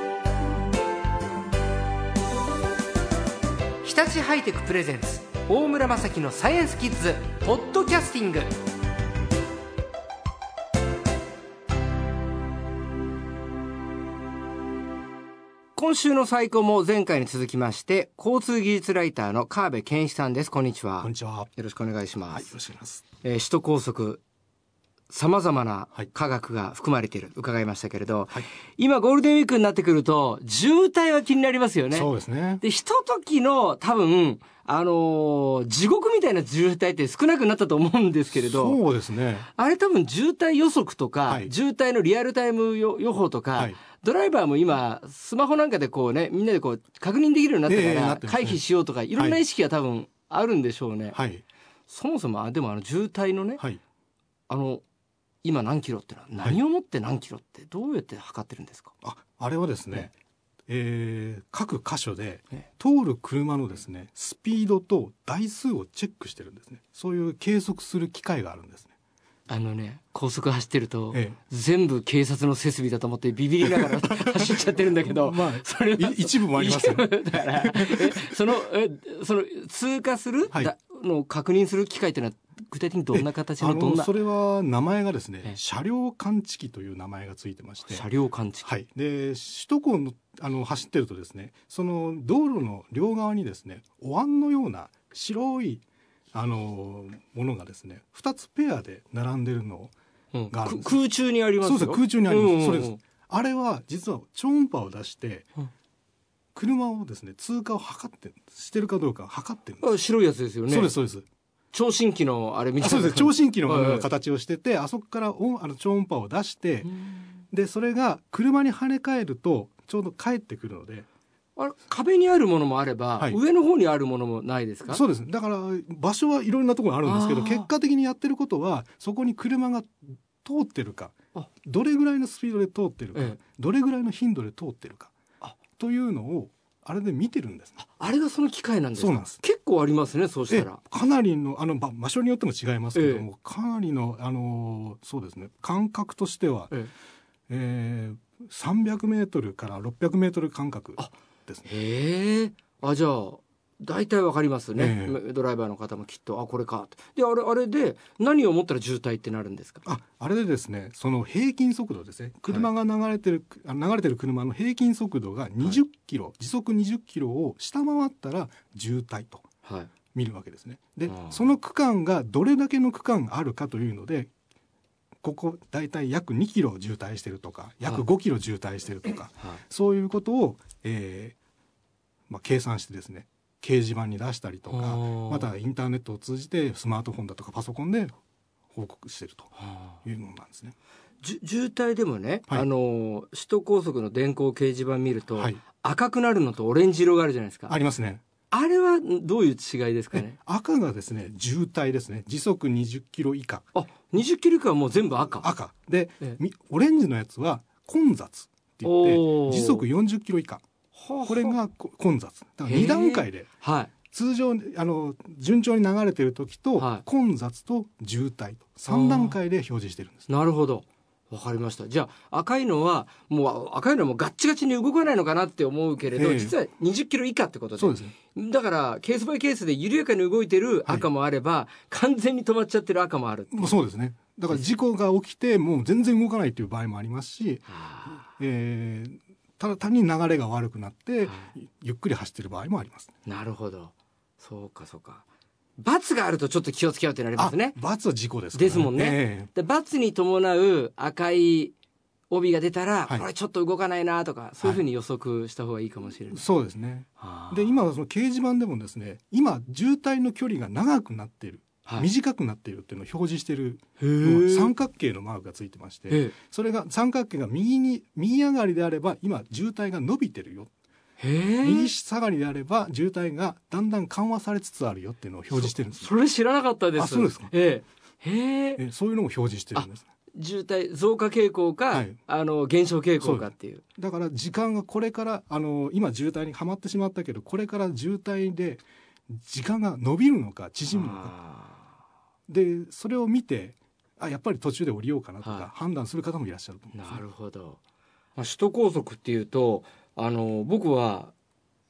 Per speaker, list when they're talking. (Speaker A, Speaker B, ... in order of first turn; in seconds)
Speaker A: 3.8-8.5, 15.8-22.6, 23.2-24.2, 25.1-38.8, 39.5-51.2, 51.9-53.6, 54.5-54.8, 55.4-58.9, 69.5-84.1, 87.9-88.7, 100.3-103.0, 109.8-110.9, 111.7-114.1, 116.8-117.3, 121.6-125.0, 127.0-127.7, 137.8-140.8, 142.9-143.2, 151.7-159.8, 169.6-169.9, 171.1-171.4, 184.7-185.5, 189.6-190.0, 191.2-197.8, 198.5-200.4, 203.8-205.5, 208.8-209.9, 210.9-211.6, 212.7-213.9, 216.8-217.0, 218.9-219.4, 220.3-233.8, 237.7-238.2, 241.2-241.5, 243.2-245.2, 245.8-247.8, 248.5-251.8, 252.3-256.5, 257.2-257.8, 264.0-264.7, 266.1-266.4, 271.2-271.9, 275.5-278.9, 279.8-283.8, 290.9-291.9, 295.4-295.7, 296.9-297.8, 298.4-301.3
Speaker B: 21.0-21.5, 22.3-23.0, 31.9-32.6, 38.3-39.5, 47.7-48.6, 51.1-51.4, 59.0-60.1, 60.7-68.9, 73.6-78.4, 83.1-88.0, 88.6-99.9, 100.5-101.0, 101.6-105.5, 106.5-110.0, 110.7-111.3, 112.8-116.9, 117.5-121.1, 124.9-135.1, 135.8-137.8, 139.0-139.4, 140.5-146.8, 147.5-151.7, 154.8-155.2, 159.8-169.4, 170.1-174.3, 175.2-181.4, 182.3-188.2, 188.7-190.8, 195.3-195.6, 197.7-198.2, 200.1-203.6, 205.4-210.6, 211.3-213.5, 214.1-220.3, 226.2-226.6, 227.8-228.1, 233.5-243.1, 247.4-249.5, 256.3-270.7, 271.6-276.1, 277.0-277.5, 278.8-280.1, 283.2-291.4, 292.5-297.2